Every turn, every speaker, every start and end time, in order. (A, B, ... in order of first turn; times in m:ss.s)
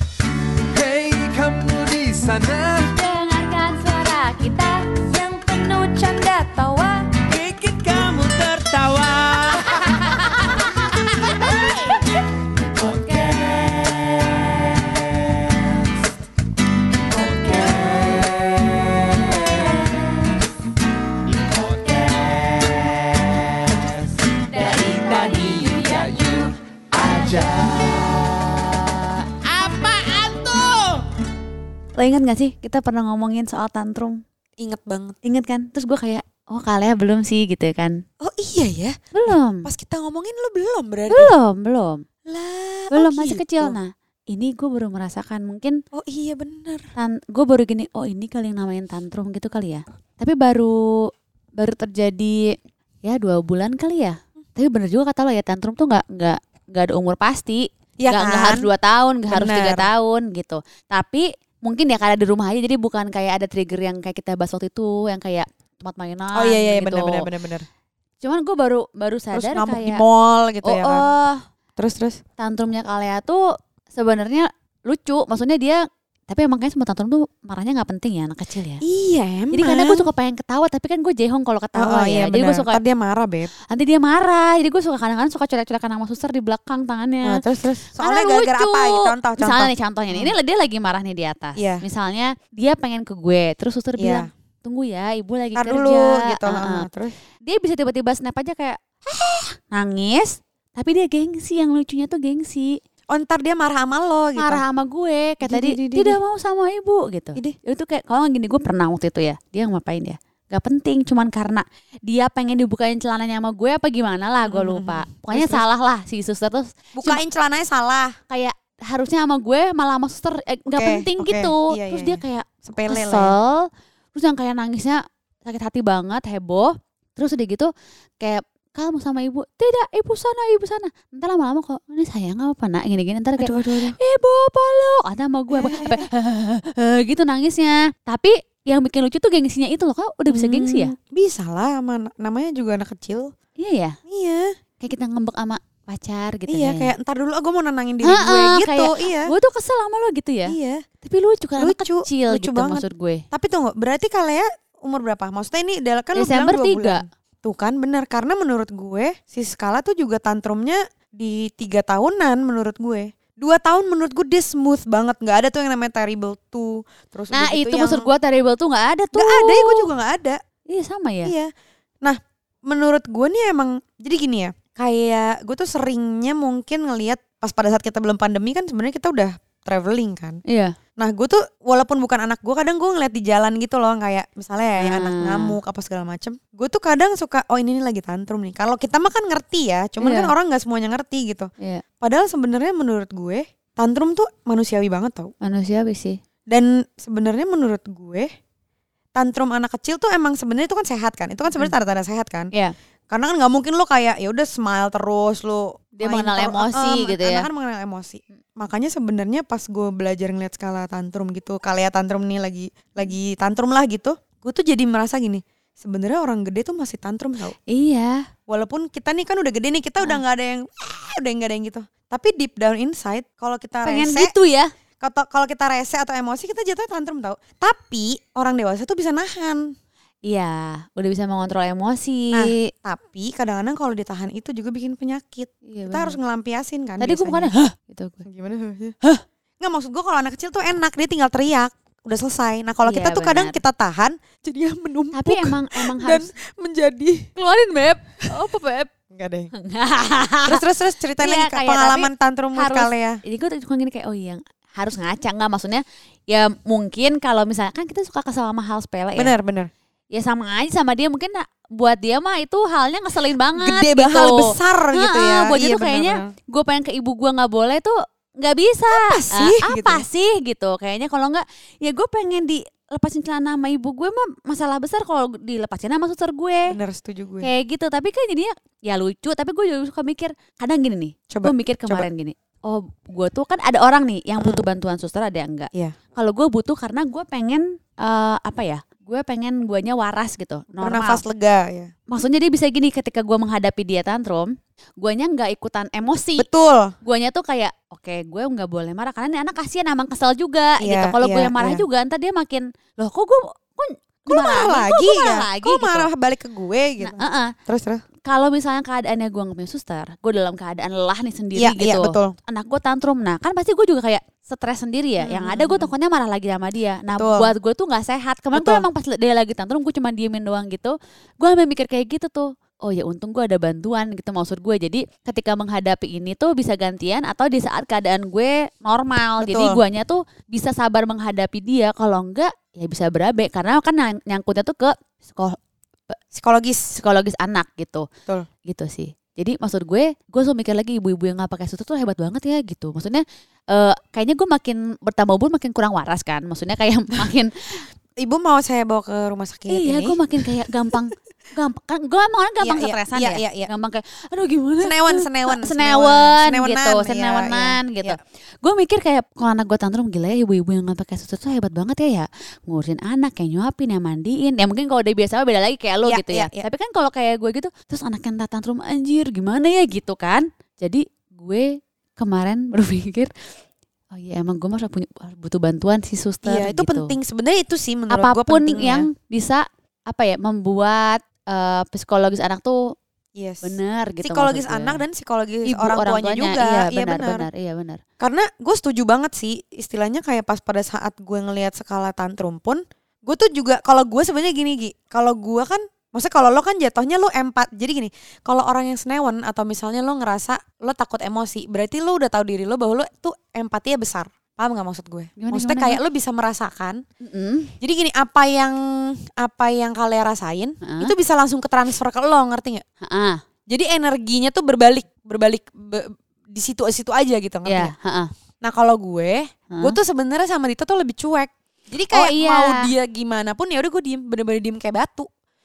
0:00.7-0:02.9 A
0:03.0-0:05.5 B
0:04.9-0:07.2 C
0:07.2-0:09.8 D
0:24.6-0:26.1 B
0:24.6-0:26.2 C
0:27.0-0:27.6 B
0:29.5-0:30.8 E
0:32.0-0:34.2 B
0:34.6-0:35.2 E
0:35.2-0:38.0 B
0:38.2-0:41.4 E
0:39.1-0:39.7 B
0:41.1-0:42.0 B
0:42.3-0:43.8 E
0:42.9-0:45.8 B
0:45.9-0:46.9 E
0:47.0-0:51.0 B
0:51.6-0:52.5 B
0:53.0-1:07.2 B
0:58.0-0:58.7 E
0:59.3-0:59.9 E
1:06.3-1:07.7 E
1:08.2-1:10.0 B
1:09.3-1:11.1 E
1:10.6-1:11.4 B
1:11.8-1:12.2 E
1:12.4-1:13.4 B
1:13.9-1:15.8 B
1:16.3-1:18.8 B
1:18.8-1:20.1 E
1:19.5-1:22.8 B
1:21.8-1:23.5 E
1:23.7-1:27.4 B
1:27.2-1:30.4 E
1:28.0-1:36.9 B
1:31.6-1:31.8 E
1:34.0-1:34.3 E
1:35.6-1:37.1 E
1:37.5-1:42.8 B
1:43.1-1:44.6 E
1:44.4-1:57.2 B
1:45.4-1:46.2 E
1:54.4-1:55.6 E
1:57.0-1:58.1 E
1:58.3-2:07.7 B
2:00.7-2:03.4 E
2:08.2-2:20.9 B
2:13.4-2:14.0 E
2:15.5-2:16.1 E
2:20.3-2:23.3 E
2:23.6-2:24.0 B
2:24.1-2:24.5 E
2:24.8-2:26.9 B
2:26.5-2:29.3 E
2:28.0-2:33.2 B
2:30.5-2:30.8 E
2:31.6-2:48.1 E
2:36.2-2:37.0 B
2:47.3-2:49.9 B
2:49.1-2:50.4 E
2:50.7-2:51.3 B
2:51.2-2:51.5 E
2:52.0-3:00.4 E
3:00.5-3:00.7 B
3:01.0-3:11.5 E
3:04.8-3:05.6 B
3:10.0-3:10.3 B
3:12.0-3:15.3 E
3:15.4-3:16.2 B
3:16.5-3:18.3 E
3:19.2-3:22.5 E
3:23.1-3:37.6 E
3:26.0-3:27.5 B
3:37.7-3:38.2 B
3:38.5-3:44.3 E
3:43.8-3:44.7 B
3:45.0-3:49.7 E
3:50.3-3:52.6 B
3:52.3-3:57.5 E
3:55.7-3:56.2 B
3:57.0-3:58.2 B
3:58.2-3:59.0 E
3:59.6-4:07.3 E
4:02.8-4:03.6 B
4:05.1-4:06.3 B
4:07.4-4:08.9 B
4:09.1-4:09.5 E
4:09.5-4:10.6 B
4:10.5-4:13.2 E
4:11.2-4:19.3 B
4:19.2-4:19.7 E
4:20.1-4:36.8 B
4:23.6-4:26.3 E
4:28.9-4:30.1 E
4:36.7-4:37.5 E
4:37.4-4:51.2 B
4:41.3-4:42.1 E
4:44.4-4:44.6 E
4:50.8-4:51.9 E
4:52.1-4:56.5 B
4:56.4-4:56.9 E
4:57.0-5:06.1 B
5:00.8-5:01.8 E
5:04.3-5:08.0 E
5:07.0-5:07.5 B
5:08.3-5:35.6 B
5:11.6-5:12.4 E
5:15.2-5:15.9 E
5:17.2-5:17.5 E
5:18.5-5:18.9 E
5:29.4-5:29.8 E
5:36.3-5:36.9 E
5:37.0-5:38.1 B
5:38.7-5:47.5 B
5:48.2-5:50.2 E
5:49.7-6:11.7 B
5:52.6-5:53.7 E
5:54.8-5:58.2 E
6:06.0-6:06.7 E
6:12.2-6:13.3 B
6:14.1-6:17.2 B
6:16.4-6:19.1 E
6:18.1-6:22.8 B
6:23.4-6:27.5 E
6:23.6-6:25.0 B
6:25.7-6:28.0 B
6:28.2-6:47.0 E
6:45.4-6:46.0 B
6:47.2-6:47.7 B
6:47.8-6:52.8 E
6:50.8-6:51.1 B
6:53.0-6:53.4 B
6:53.7-6:57.9 E
6:57.7-6:58.3 B
6:58.6-7:05.3 E
6:59.7-7:00.0 B
7:02.1-7:02.9 B